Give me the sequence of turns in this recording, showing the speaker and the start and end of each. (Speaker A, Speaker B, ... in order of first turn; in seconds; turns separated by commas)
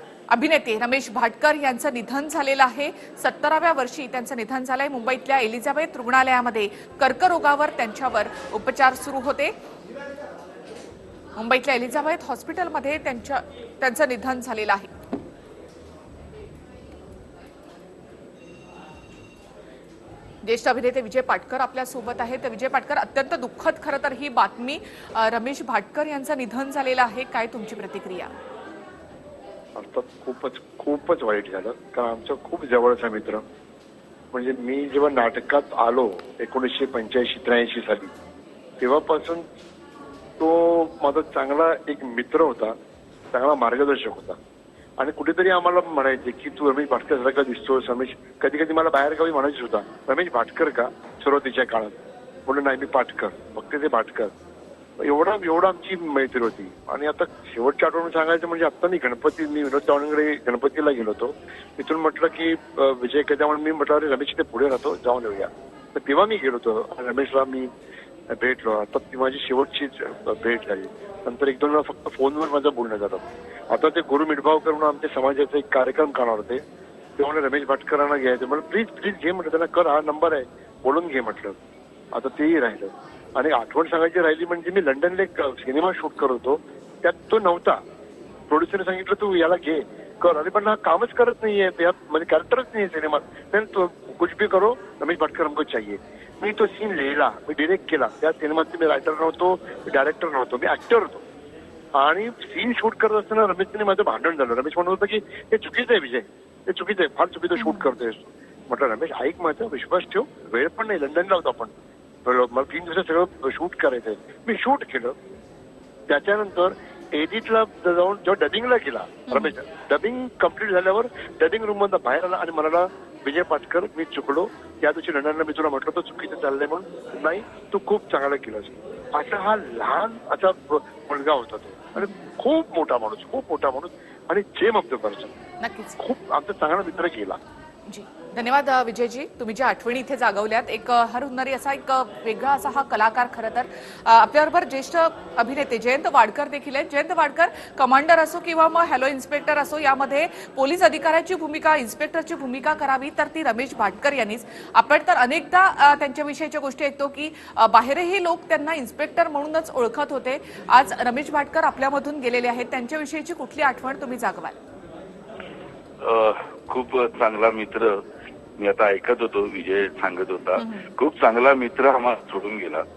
Speaker A: 0.3-9.5, Speaker A: 11.3-14.9, Speaker A: 20.4-28.3, Speaker B: 29.8-33.4, Speaker B: 34.3-38.1, Speaker B: 38.8-39.4, Speaker B: 40.4-42.8, Speaker B: 43.3-44.4, Speaker B: 45.0-54.3, Speaker B: 55.0-67.7, Speaker B: 68.3-76.6, Speaker B: 77.2-81.6, Speaker B: 82.1-87.8, Speaker B: 88.5-101.2, Speaker B: 102.0-111.7, Speaker A: 107.6-107.9, Speaker B: 112.2-115.1, Speaker B: 116.1-135.3, Speaker A: 119.3-119.5, Speaker A: 135.6-136.0, Speaker B: 136.0-137.4, Speaker A: 137.9-164.6, Speaker C: 166.0-168.0, Speaker C: 168.6-172.8, Speaker A: 170.6-170.8